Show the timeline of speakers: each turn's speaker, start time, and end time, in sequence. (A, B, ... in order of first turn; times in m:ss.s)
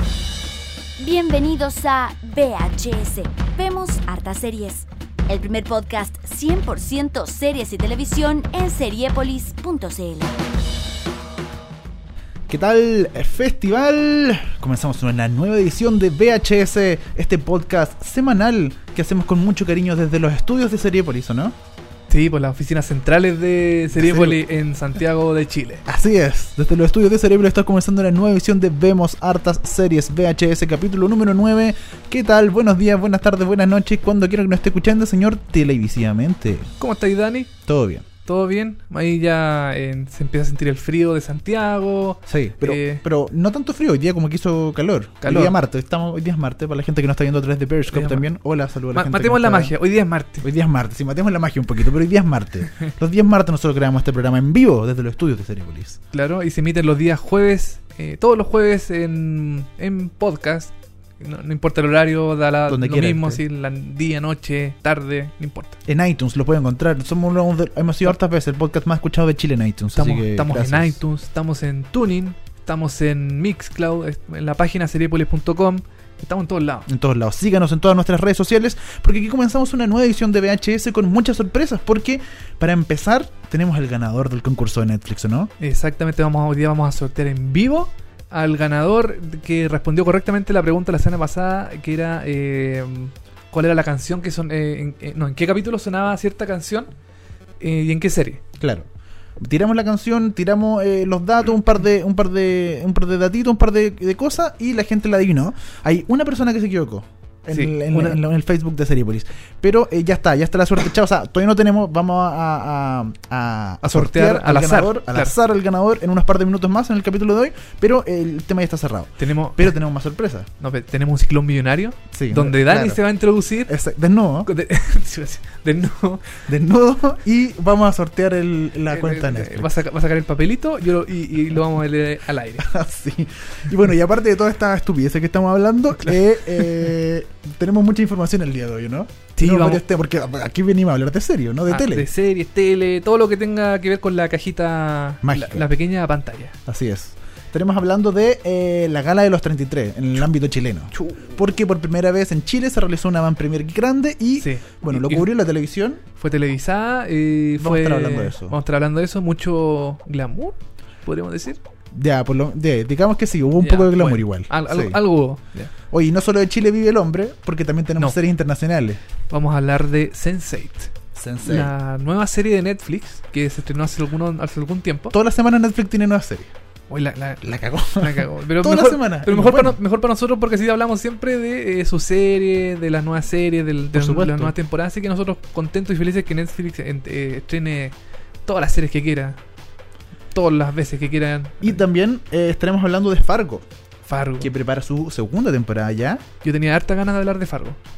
0:01.0-0:10.3 A
0:12.5-0:21.6 B
0:22.1-0:25.8 C
0:23.9-0:24.4 B
0:25.9-0:36.7 B
0:36.8-0:37.5 C
0:37.7-0:38.1 B
0:38.3-0:43.0 C
0:42.3-0:49.8 B
0:45.2-0:45.6 C
0:47.9-0:48.2 C
0:48.9-0:50.5 C
0:50.4-0:56.0 B
0:56.1-1:05.8 C
1:02.7-1:03.4 B
1:05.9-1:11.0 B
1:09.9-1:16.9 C
1:16.9-1:25.5 B
1:25.6-1:36.9 C
1:37.6-1:38.4 C
1:38.6-2:00.5 B
1:47.5-1:48.2 C
1:53.8-1:55.4 C
1:59.2-1:59.8 C
2:00.6-2:03.7 C
2:02.1-2:03.0 B
2:03.7-2:04.5 B
2:04.4-2:06.3 C
2:06.4-2:09.7 B
2:08.9-2:12.7 C
2:12.6-2:22.1 B
2:19.4-2:19.8 C
2:21.7-2:26.6 C
2:25.2-2:25.7 B
2:26.7-2:36.0 B
2:30.9-2:31.4 C
2:34.4-2:35.3 C
2:36.2-2:41.6 C
2:37.6-2:38.6 B
2:41.9-2:45.0 B
2:43.6-2:45.7 C
2:45.9-2:49.0 B
2:49.3-2:50.9 C
2:51.2-2:51.7 B
2:51.4-2:55.2 C
2:55.1-2:56.5 B
2:56.9-3:08.0 C
2:57.4-2:59.8 B
3:03.9-3:04.6 B
3:08.5-3:09.4 C
3:10.3-3:11.8 C
3:11.6-3:13.7 B
3:14.1-3:14.5 C
3:14.4-3:16.2 B
3:16.4-3:17.8 C